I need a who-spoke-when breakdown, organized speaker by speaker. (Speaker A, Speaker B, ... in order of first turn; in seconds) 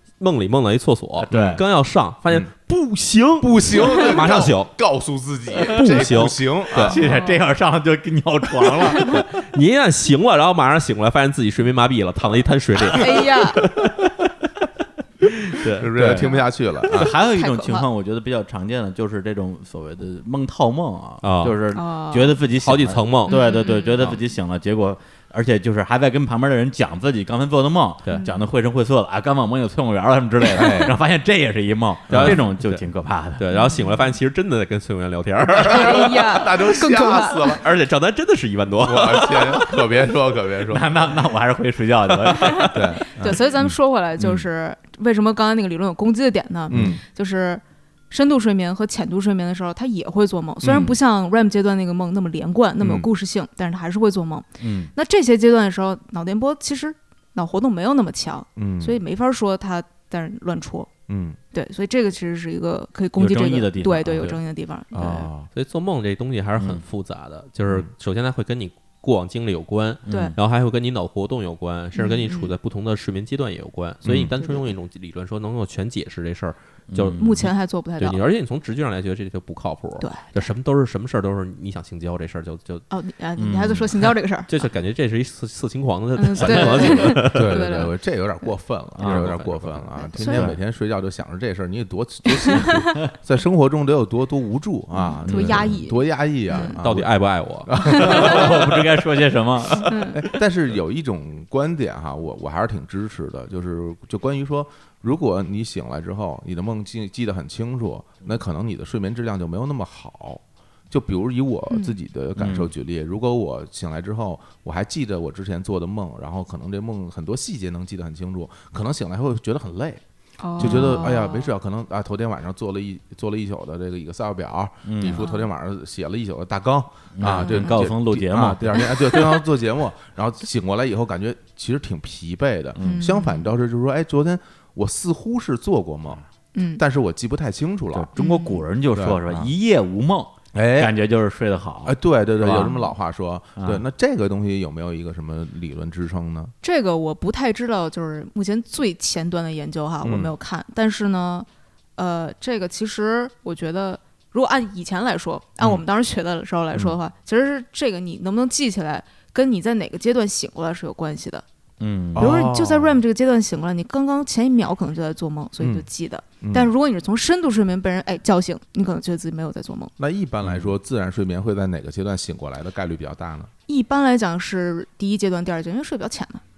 Speaker A: 0.2-4.7, 5.7-7.0, 9.0-14.3, 15.5-15.9, 21.2-21.6, 22.6-24.2, 32.1-32.9, 33.4-36.5, 37.4-39.8, 65.5-82.8, 84.5-87.6, 89.0-89.9, 96.8-98.3
Speaker B: 1.2-1.6, 6.8-9.1, 15.9-16.3, 16.9-33.5, 40.7-42.8, 54.6-54.9, 63.2-64.4, 66.6-66.8, 70.1-70.4, 76.9-77.4, 83.4-83.9, 89.0-89.3, 90.2-90.6, 95.2-95.7, 98.0-99.9, 112.4-112.7, 120.6-121.1, 124.8-125.2, 127.2-129.2, 132.8-133.1, 137.9-142.9, 143.6-143.8, 161.8-162.4
Speaker C: 1.3-1.6, 3.4-7.0, 15.7-17.1, 30.5-30.9, 32.1-32.4, 35.5-37.6, 38.8-40.9, 42.7-44.5, 46.7-47.0, 50.6-51.0, 52.8-53.1, 58.6-59.0, 61.1-61.4, 64.9-65.5, 74.0-74.3, 87.2-98.8, 99.8-120.0, 120.6-138.1, 138.9-139.5, 140.5-140.9, 141.8-146.5, 150.0-150.3, 162.2-163.0, 165.6-165.9, 166.4-166.7, 170.0-173.5
Speaker D: 7.0-7.4, 8.9-9.2, 12.9-13.6, 16.2-16.5, 17.1-17.9, 21.7-22.4, 23.3-24.0, 30.6-30.9, 33.5-34.1, 35.6-37.5, 42.4-60.9, 61.5-65.3, 70.1-70.3, 72.0-72.5, 77.2-78.2, 82.9-84.5, 86.2-87.9, 90.0-90.5, 92.3-92.9, 95.0-96.8, 97.8-98.7, 99.8-100.2, 111.7-112.0, 120.4-121.5, 125.1-125.5, 127.2-127.8, 132.8-133.5, 136.6-136.8, 138.2-138.7, 146.6-161.4, 162.2-169.9, 173.7-176.4